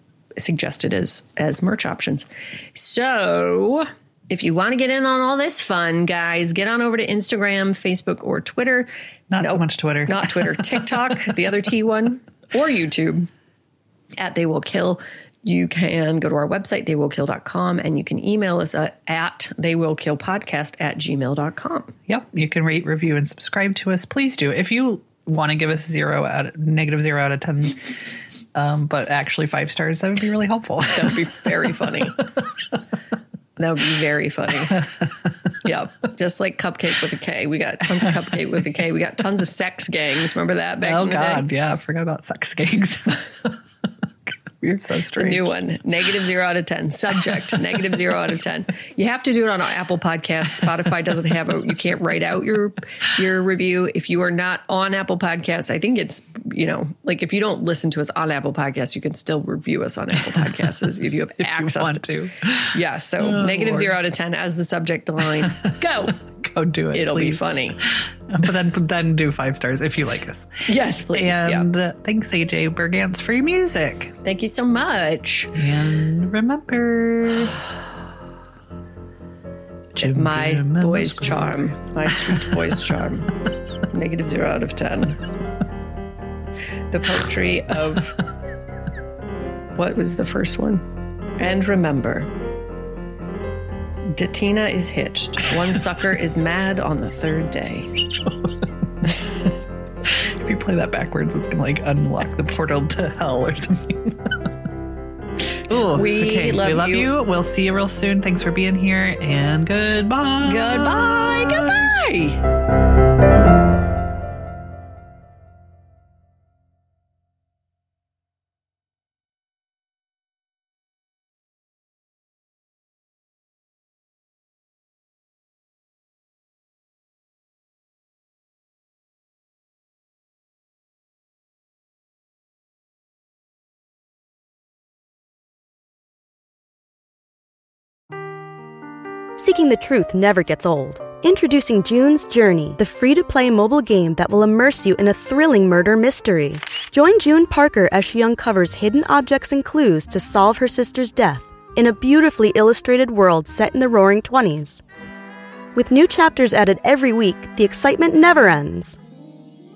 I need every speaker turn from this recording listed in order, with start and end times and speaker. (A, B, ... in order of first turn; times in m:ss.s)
0:00.4-0:13.3 A
0:09.3-0:10.8 B
0:14.2-0:21.9 A
0:22.1-0:31.3 B
0:30.9-0:32.2 A
0:33.6-0:34.8 A
0:35.6-0:41.5 A
0:40.8-0:43.6 B
0:44.3-0:45.5 B
0:45.2-1:02.0 A
1:01.4-1:04.0 B
1:02.7-1:06.2 A
1:05.4-1:14.2 B
1:06.9-1:07.8 A
1:10.7-1:11.7 A
1:14.2-1:15.5 A
1:15.5-1:17.6 B
1:19.9-1:23.3 A
1:20.0-1:21.6 B
1:22.1-1:22.6 B
1:23.9-1:25.2 A
1:26.9-1:28.2 A
1:29.8-1:30.8 A
1:31.4-1:32.3 A
1:34.1-1:38.0 A
1:38.2-1:38.5 B
1:40.0-1:44.5 B
1:45.7-1:51.9 B
1:45.7-1:47.1 A
1:50.4-1:52.4 A
2:19.4-2:34.8 C
2:35.7-2:39.0 C